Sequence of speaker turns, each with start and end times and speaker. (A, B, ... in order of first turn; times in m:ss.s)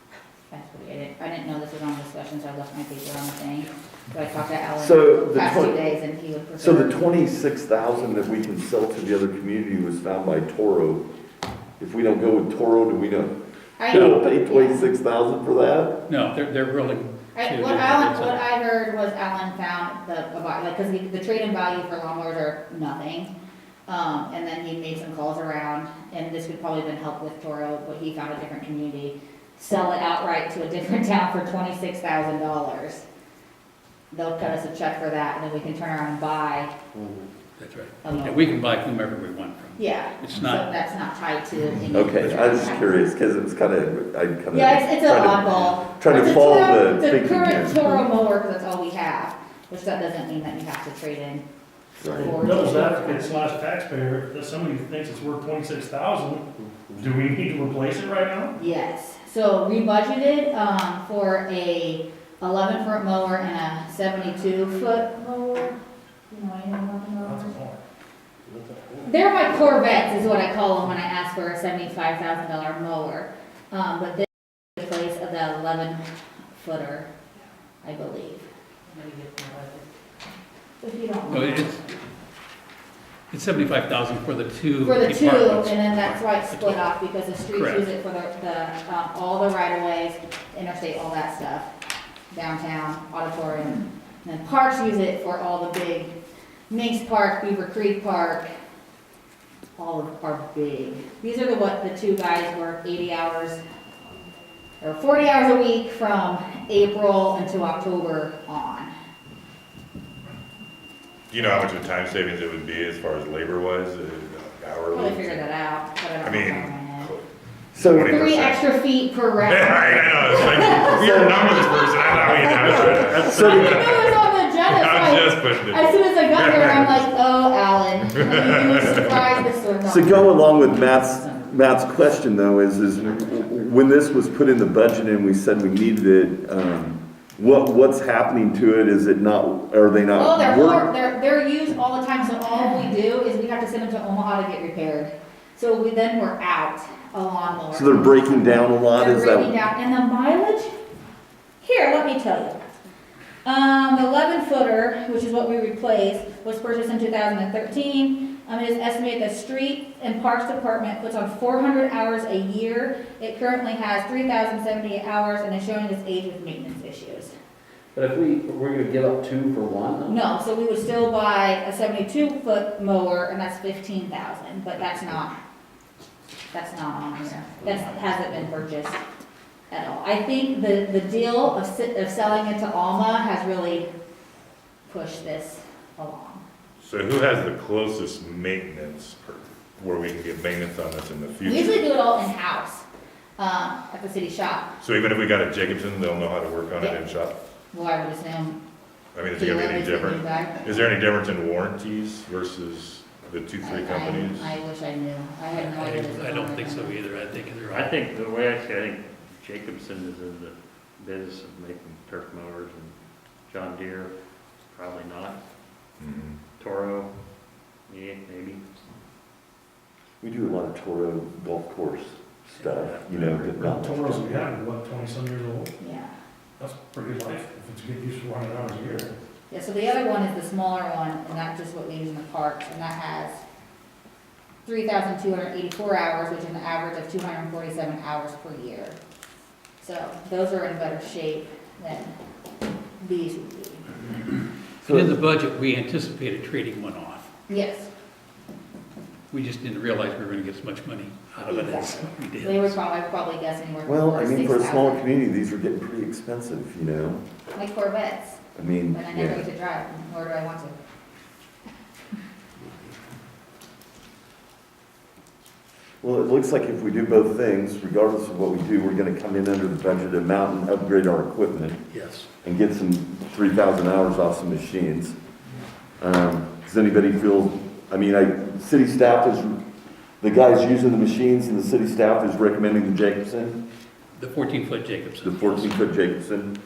0:00.5-0:07.2 A
0:04.8-0:05.8 B
0:06.6-0:11.0 B
0:11.8-0:13.3 B
0:13.8-0:14.9 A
0:13.9-0:16.0 B
0:13.9-0:14.2 C
0:16.1-0:18.4 C
0:17.4-0:23.3 A
0:23.9-0:33.0 A
0:34.1-0:36.7 A
0:37.0-0:37.2 D
0:37.6-0:40.7 C
0:38.0-0:38.4 A
0:39.8-0:43.0 A
0:41.9-0:48.0 B
0:44.5-0:51.4 A
0:52.0-0:52.4 B
0:52.0-0:53.5 A
0:52.2-0:56.4 E
0:56.6-0:57.1 D
0:57.0-0:58.6 E
0:58.6-1:05.7 A
1:06.3-1:07.6 A
1:07.2-1:07.8 E
1:08.5-1:09.1 D
1:09.0-1:16.0 A
1:16.6-1:17.1 A
1:17.8-1:19.8 A
1:20.8-1:21.7 A
1:21.3-1:21.8 C
1:23.3-1:26.9 C
1:24.8-1:31.7 A
1:27.5-1:27.8 C
1:32.3-1:36.1 A
1:36.7-1:38.5 A
1:39.8-1:43.6 A
1:44.8-1:48.9 A
1:51.3-1:55.5 F
1:54.9-1:57.1 A
1:56.2-1:57.2 F
1:57.7-1:58.2 B
1:57.8-1:58.6 F
1:58.0-2:11.5 A
1:59.4-2:07.0 F
2:01.0-2:01.4 B
2:08.1-2:09.3 F
2:09.8-2:20.9 B
2:20.1-2:30.7 A
2:27.7-2:29.6 B
2:31.6-2:32.6 A
2:33.4-2:47.3 A
2:47.9-2:50.2 D
2:50.1-2:55.4 A
2:56.5-2:59.0 A
2:59.7-3:03.9 A
3:04.9-3:06.4 A
3:06.8-3:11.9 F
3:11.4-3:12.9 A
3:13.4-3:14.8 A
3:14.8-3:17.4 F
3:16.8-3:17.1 A
3:17.7-3:18.6 A
3:19.2-3:24.6 F
3:19.3-3:20.6 A
3:23.6-3:27.0 A
3:25.5-3:28.0 C
3:27.7-3:33.0 G
3:33.5-3:34.1 G
3:34.7-3:35.4 G
3:36.0-3:36.4 F
3:36.6-3:37.1 G
3:37.9-3:38.6 G
3:40.2-3:44.5 B
3:42.5-3:43.6 G
3:43.3-3:45.7 E
3:45.8-3:46.1 A
3:46.6-3:49.1 E
3:49.5-3:53.4 A
3:54.6-3:59.0 A
3:59.8-4:02.1 A
4:03.0-4:03.9 A
4:04.8-4:05.2 B
4:04.8-4:07.3 C
4:07.5-4:07.9 A
4:09.3-4:12.8 C
4:11.4-4:15.1 A
4:13.9-4:17.2 B
4:17.6-4:18.4 A
4:18.6-4:19.5 B
4:18.9-4:20.8 A
4:26.0-4:31.8 B
4:31.9-4:32.2 D
4:32.4-4:35.2 B
4:36.0-4:39.6 B
4:40.2-4:43.6 B
4:44.2-4:45.8 C
4:45.2-4:46.6 B